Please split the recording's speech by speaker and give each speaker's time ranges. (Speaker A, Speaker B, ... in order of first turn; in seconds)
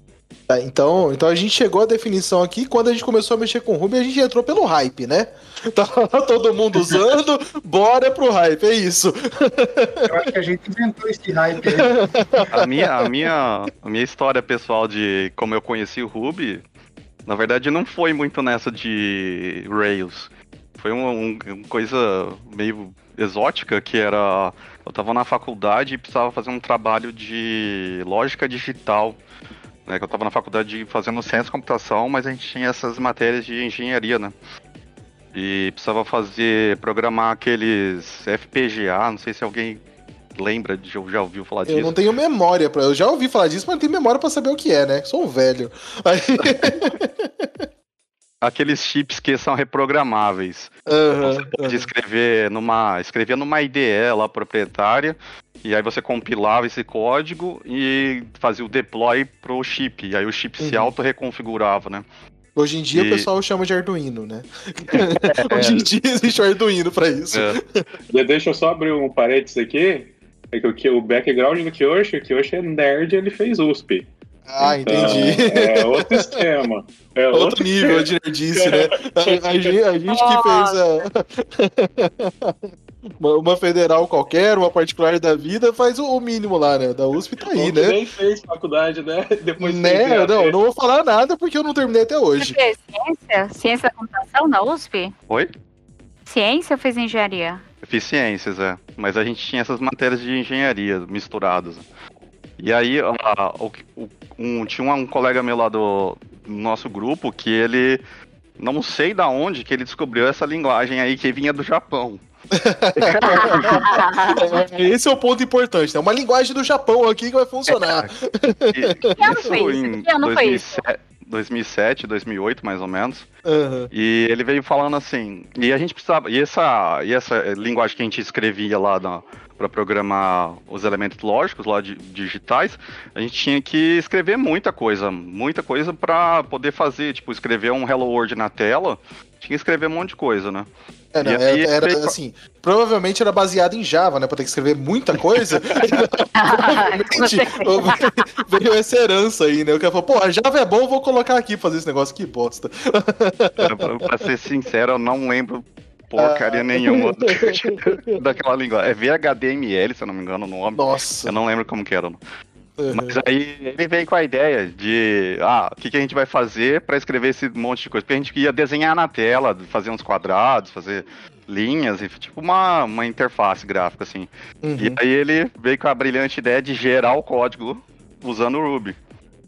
Speaker A: 0.5-10.3, 11.6-13.1, 41.7-47.7, 50.9-51.9, 60.6-60.9, 62.6-67.8, 74.5-76.4, 77.3-88.0, 89.6-92.6, 112.5-119.5, 123.5-123.9, 141.1-153.9, 156.2-158.2, 160.7-161.3, 162.8-163.2, 174.6-175.0
Speaker B: 10.1-12.5
Speaker C: 12.5-16.6, 17.3-29.2, 29.9-34.3, 35.3-39.8, 40.4-42.0, 46.6-46.9, 48.4-62.0, 62.9-63.3, 64.9-65.9, 67.3-67.6, 97.8-101.9, 102.6-108.0, 108.6-112.2, 113.0-114.0, 117.7-118.1, 118.7-123.3, 123.9-140.7, 141.2-142.1, 145.8-146.0, 153.6-162.2, 162.9-179.0
Speaker D: 68.1-74.1, 74.6-79.8, 87.4-90.6
Speaker E: 80.1-80.8, 92.4-95.1, 96.3-97.6, 113.2-114.5, 119.2-120.6, 146.4-148.4